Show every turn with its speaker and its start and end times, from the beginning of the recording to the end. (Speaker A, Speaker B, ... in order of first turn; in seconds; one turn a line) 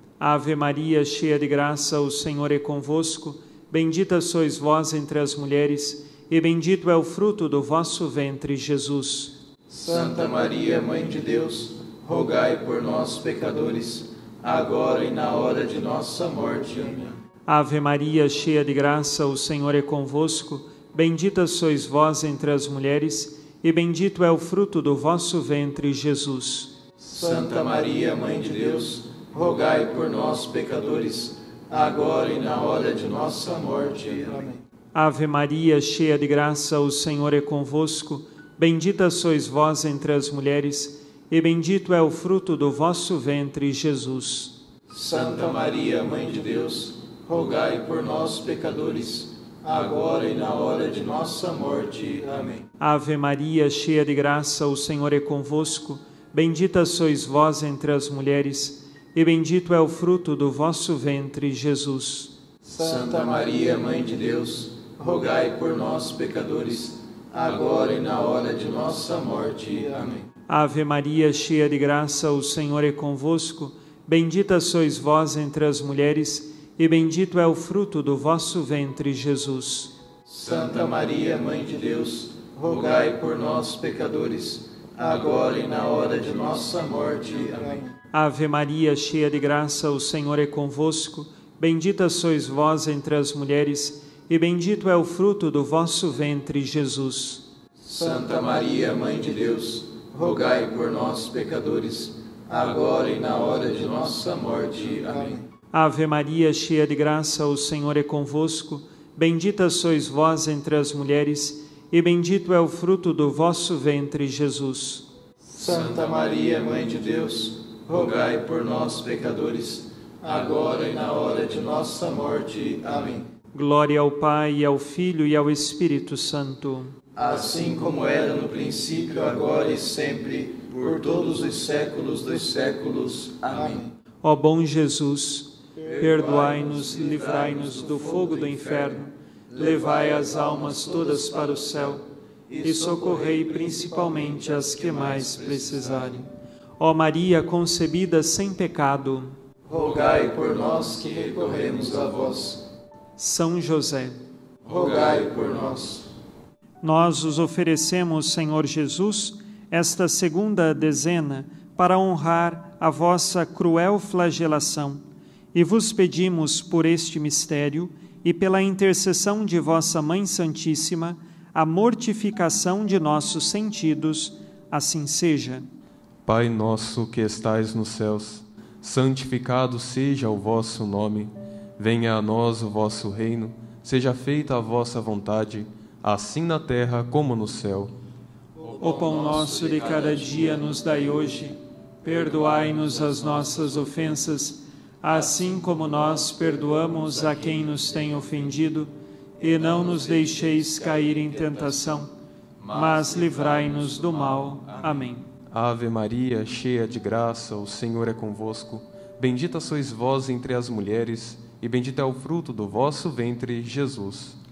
Speaker A: 0.2-9.3
Speaker B: 9.7-17.2
Speaker A: 17.4-26.7
Speaker B: 27.0-34.6
Speaker A: 34.9-44.6
Speaker B: 44.9-52.7
Speaker A: 52.8-62.3
Speaker B: 62.6-70.2
Speaker A: 70.5-79.9
Speaker B: 80.3-87.9
Speaker A: 88.1-97.5
Speaker B: 97.8-105.4
Speaker A: 105.7-115.1
Speaker B: 115.5-123.3
Speaker A: 123.5-127.0
Speaker B: 127.2-133.9
Speaker A: 134.2-142.0
Speaker A: 142.6-149.4
Speaker B: 149.7-152.7
Speaker A: 153.2-154.2
Speaker B: 154.6-156.1
Speaker A: 156.8-165.0
Speaker A: 165.5-175.6
Speaker C: 176.2-187.9
Speaker A: 188.7-202.1
Speaker A: 202.6-205.3
Speaker C: 205.5-214.4